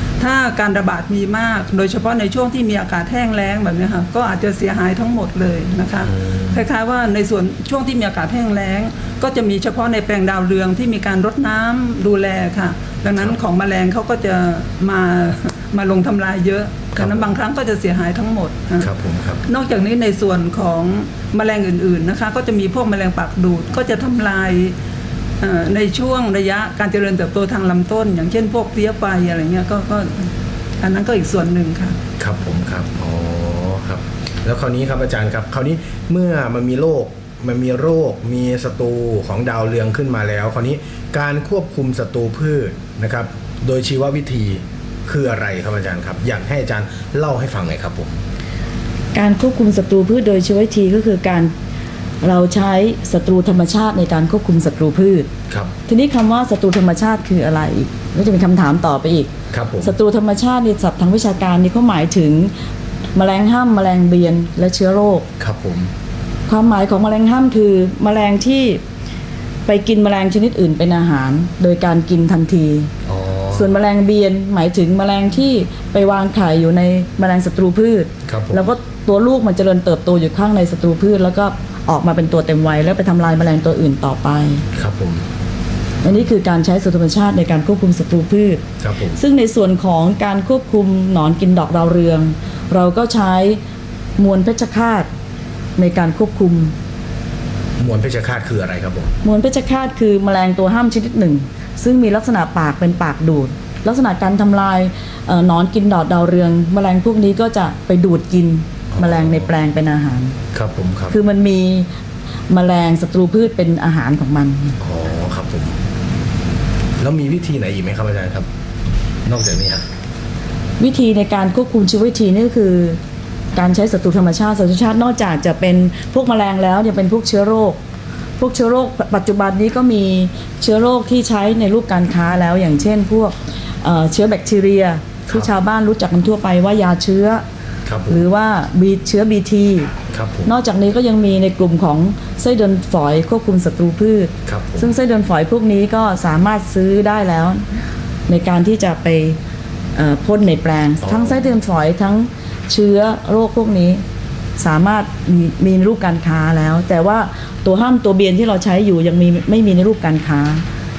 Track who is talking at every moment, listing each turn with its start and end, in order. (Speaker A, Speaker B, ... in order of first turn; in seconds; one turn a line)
Speaker A: 0.2-18.9
Speaker B: 6.0-6.7
Speaker B: 16.9-17.3
Speaker B: 18.8-19.4
Speaker A: 19.4-24.7
Speaker A: 25.4-30.3
Speaker A: 30.8-32.0
Speaker B: 32.2-48.2
Speaker C: 49.1-51.5
Speaker C: 52.2-55.3
Speaker C: 55.9-62.5
Speaker B: 59.5-59.9
Speaker C: 63.1-65.3
Speaker B: 65.4-65.9
Speaker C: 66.5-68.8
Speaker C: 69.7-72.9
Speaker B: 73.0-73.7
Speaker C: 73.5-84.6
Speaker B: 78.3-78.6
Speaker B: 84.7-85.2
Speaker C: 86.0-88.6
Speaker B: 88.8-89.2
Speaker C: 89.2-93.6
Speaker C: 94.2-95.1
Speaker C: 95.8-96.7
Speaker B: 97.8-99.1
Speaker C: 99.2-110.4
Speaker B: 108.9-109.5
Speaker B: 110.5-111.2
Speaker C: 111.1-111.9
Speaker C: 112.5-114.8
Speaker B: 114.8-115.8
Speaker B: 117.0-118.5
Speaker B: 119.2-119.8
Speaker C: 120.8-123.0
Speaker C: 123.5-127.8
Speaker C: 128.4-137.4
Speaker B: 137.8-138.2
Speaker C: 138.1-139.9
Speaker B: 140.1-140.5
Speaker C: 140.4-147.7
Speaker B: 144.4-144.9
Speaker C: 148.3-149.4
Speaker C: 149.9-154.0
Speaker B: 151.0-151.4
Speaker C: 154.6-160.6